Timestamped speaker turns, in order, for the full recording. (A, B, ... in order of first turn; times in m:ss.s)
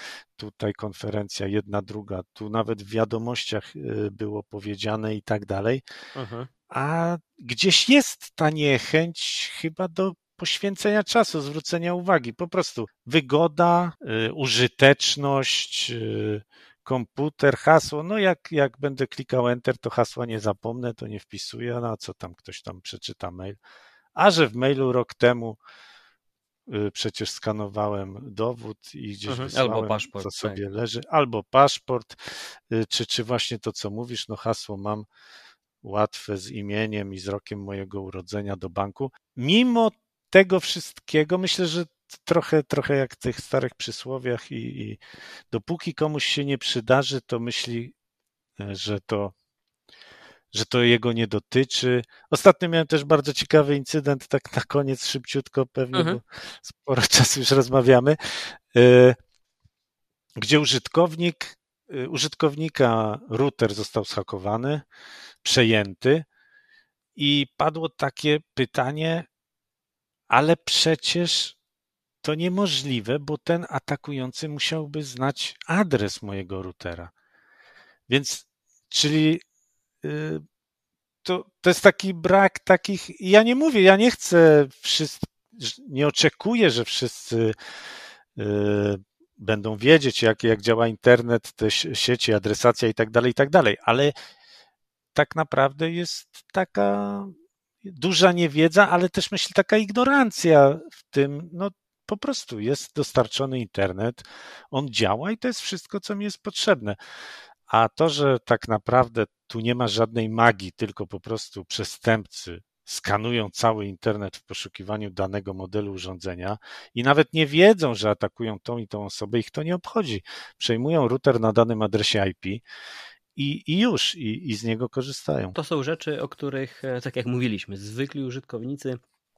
0:00.4-0:05.8 A
0:06.2-0:06.5 B
0:06.7-0:23.6 A
0:24.2-0:25.6 A
0:26.7-0:32.2 A
0:29.3-0:30.6 B
0:32.7-0:35.1 A
0:35.8-0:47.9 A
0:48.6-0:49.3 A
0:50.5-0:59.2 A
0:55.9-0:56.2 B
1:00.4-1:04.8 A
1:05.4-1:06.3 A
1:07.2-1:09.3 A
1:10.3-1:11.6 A
1:12.2-1:17.1 A
1:18.1-1:19.4 A
1:20.0-1:20.4 A
1:21.2-1:27.5 A
1:28.4-1:34.1 A
1:35.2-1:37.3 A
1:37.8-1:47.0 A
1:47.7-2:02.6 A
2:03.4-2:05.6 A
2:05.6-2:09.0 B